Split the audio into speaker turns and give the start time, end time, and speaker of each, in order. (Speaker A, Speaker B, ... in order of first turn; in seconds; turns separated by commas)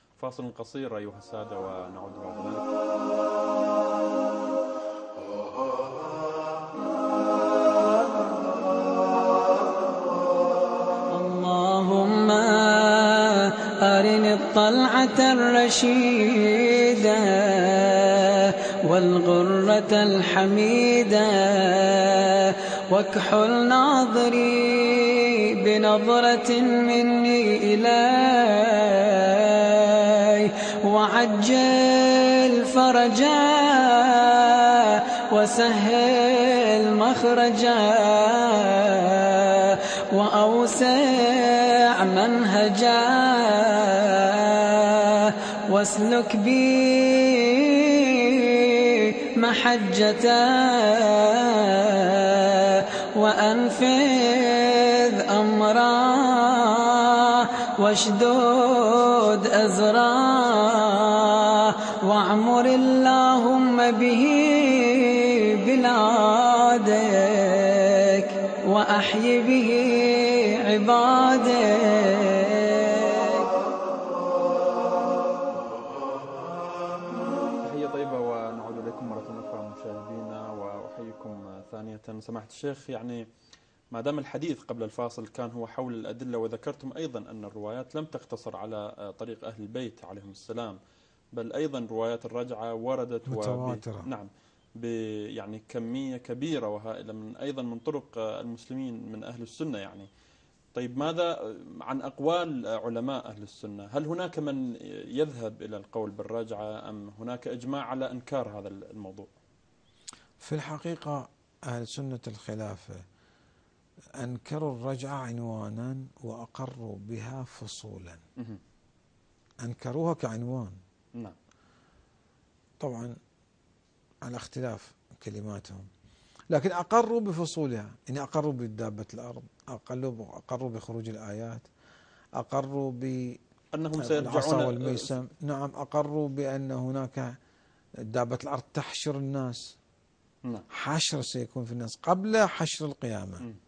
Speaker A: 0.2-2.7, Speaker B: 11.1-73.5, Speaker A: 77.6-83.2, Speaker A: 83.9-90.8, Speaker A: 91.3-100.1, Speaker C: 93.3-94.1, Speaker A: 100.7-109.3, Speaker C: 110.4-113.0, Speaker C: 114.2-118.2, Speaker C: 119.6-120.8, Speaker C: 122.8-123.2, Speaker C: 124.2-125.9, Speaker C: 126.5-131.7, Speaker C: 132.4-133.4, Speaker A: 133.7-135.2, Speaker C: 134.0-137.4, Speaker C: 138.0-139.8, Speaker C: 140.7-143.5